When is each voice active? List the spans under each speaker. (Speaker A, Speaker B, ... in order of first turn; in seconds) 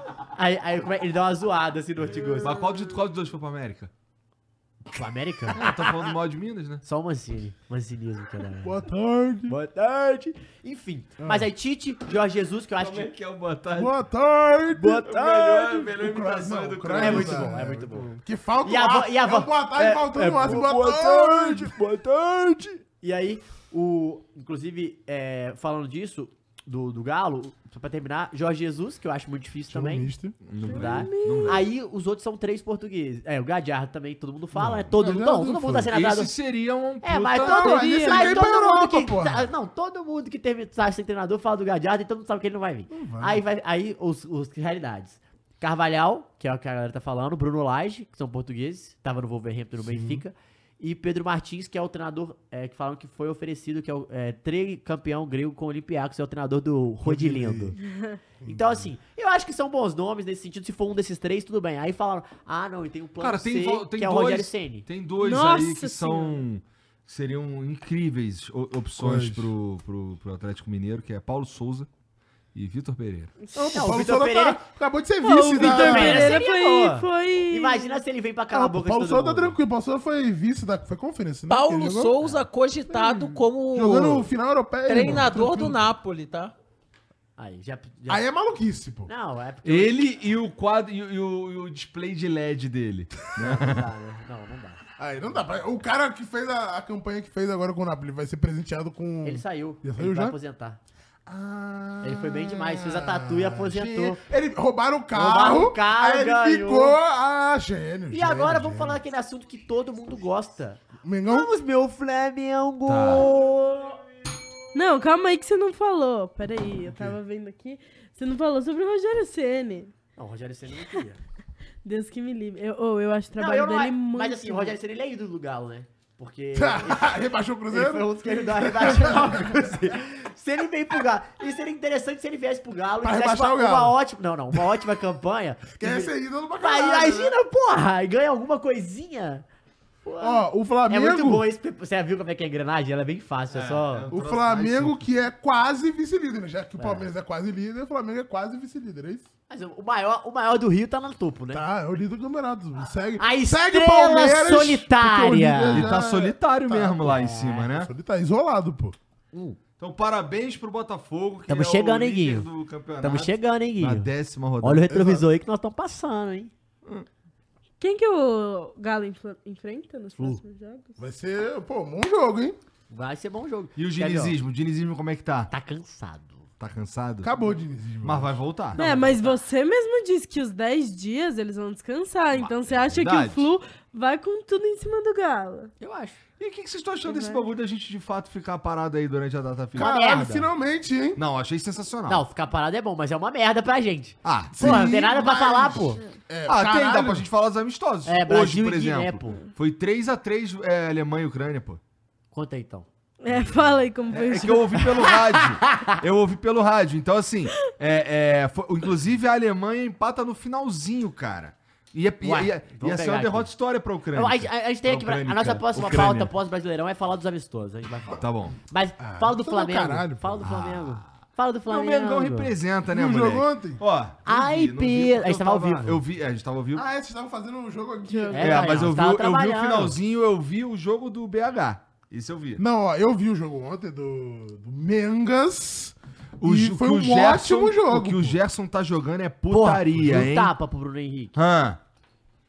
Speaker A: 0.3-2.6, 4.9-5.7, 6.8-8.8, 9.5-13.1, 14.7-15.9, 16.9-18.1, 18.6-21.7, 23.0-30.1, 30.7-36.3, 37.0-57.8, 58.5-64.9, 73.6-74.6, 75.5-79.6, 87.4-88.2, 89.1-90.0, 93.4-94.8, 99.2-100.8, 102.0-104.2, 105.1-107.0, 108.1-114.0, 120.2-121.2, 123.3-139.4, 140.1-144.1, 146.8-147.1, 149.5-151.6, 153.2-155.9, 157.1-157.7, 159.3-159.6, 161.5-162.5, 163.0-164.1, 164.6-166.5, 172.9-174.4, 175.5-176.5, 178.7-179.4, 185.8-186.2, 189.8-190.5, 192.1-196.0, 198.1-199.4, 202.3-202.9, 204.8-206.0, 212.2-213.5, 214.1-222.5, 224.3-226.0, 228.3-230.0, 239.5-241.4
Speaker B: 2.4-3.9, 5.5-6.8, 12.8-13.9, 15.1-17.5, 20.4-21.8, 30.4-31.6, 35.9-37.6, 63.2-71.9, 72.5-73.3, 89.6-93.9, 101.3-102.5, 112.9-113.3, 143.5-145.1, 155.7-157.9, 159.8-164.8, 173.8-175.5, 176.6-177.3, 178.0-178.8, 182.3-183.5, 186.4-189.9, 191.2-192.2, 194.2-194.9, 196.5-201.8, 204.1-216.3, 218.2-218.6, 220.4-221.1, 221.7-226.8, 228.4-232.6, 236.4-240.5, 241.3-241.8
Speaker C: 8.6-9.6, 11.2-11.5, 13.7-15.1, 16.0-21.8, 29.7-30.4, 34.5-35.9, 37.4-39.5, 42.9-43.4, 49.8-50.2, 57.0-57.8, 58.4-58.9, 69.0-69.5, 73.6-76.4, 78.5-82.1, 82.9-85.8, 88.1-89.1, 95.0-100.4, 102.7-109.0, 111.0-111.5, 116.8-117.2, 126.5-129.7, 133.0-134.0, 135.8-137.3, 140.2-141.5, 144.1-149.3, 151.5-159.0, 164.9-165.3, 171.0-172.6, 177.2-178.4, 189.8-191.2, 194.5-197.3, 219.0-220.4, 222.9-223.8, 226.8-228.9, 232.6-238.4
Speaker D: 30.7-31.6, 37.5-38.4, 57.9-58.2, 65.2-66.4, 73.6-73.9, 75.2-78.0, 114.7-119.9, 121.8-124.8, 167.8-171.0, 178.8-185.7, 187.1-187.4, 203.2-204.9, 228.1-228.6
Speaker E: 81.5-84.3, 84.9-86.5